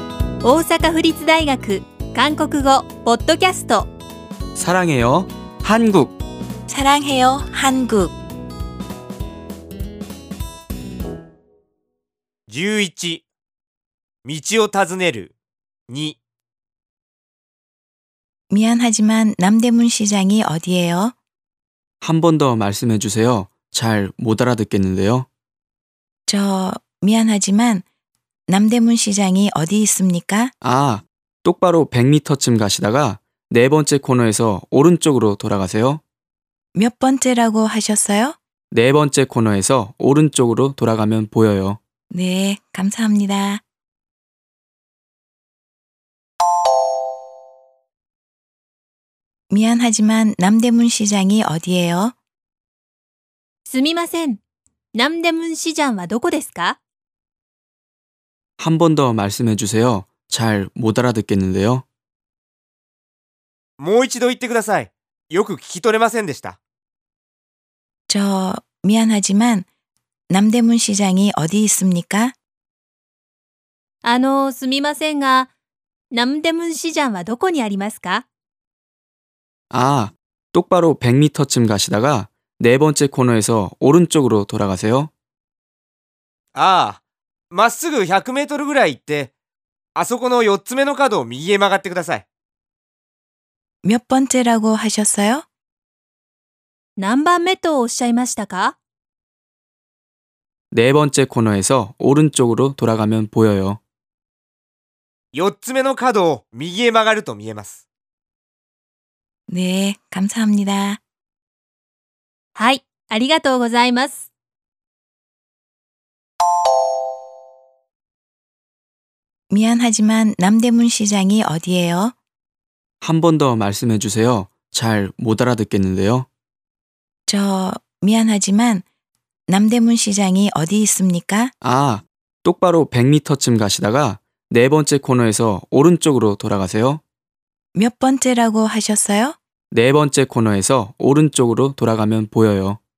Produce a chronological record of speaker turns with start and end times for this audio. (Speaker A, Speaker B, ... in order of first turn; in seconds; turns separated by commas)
Speaker A: 0.4-3.9, Speaker B: 4.5-6.2, Speaker C: 6.7-8.2, Speaker D: 12.5-13.2, Speaker D: 14.2-15.3, Speaker D: 15.9-16.2, Speaker C: 18.5-21.1, Speaker B: 22.0-25.3, Speaker C: 26.3-27.8, Speaker C: 28.5-30.5, Speaker B: 30.6-36.0, Speaker C: 36.8-38.4, Speaker B: 38.7-41.8, Speaker C: 42.1-43.6, Speaker C: 49.5-52.1, Speaker A: 53.6-54.4, Speaker A: 54.9-56.8, Speaker B: 58.6-61.9, Speaker D: 63.8-66.6, Speaker C: 68.1-69.7, Speaker C: 70.3-72.3, Speaker A: 74.0-75.5, Speaker A: 76.1-78.3, Speaker B: 79.7-85.1, Speaker D: 86.5-89.3, Speaker D: 90.0-92.3, Speaker C: 93.8-95.5, Speaker A: 97.0-98.8, Speaker B: 100.7-103.8, Speaker D: 105.3-107.8, Speaker C: 109.5-111.0, Speaker A: 112.6-114.3, Speaker C: 119.5-122.1, Speaker B: 123.0-126.3, Speaker C: 127.3-128.8, Speaker C: 129.5-131.5, Speaker B: 131.6-137.0, Speaker C: 137.8-139.4, Speaker B: 139.7-142.8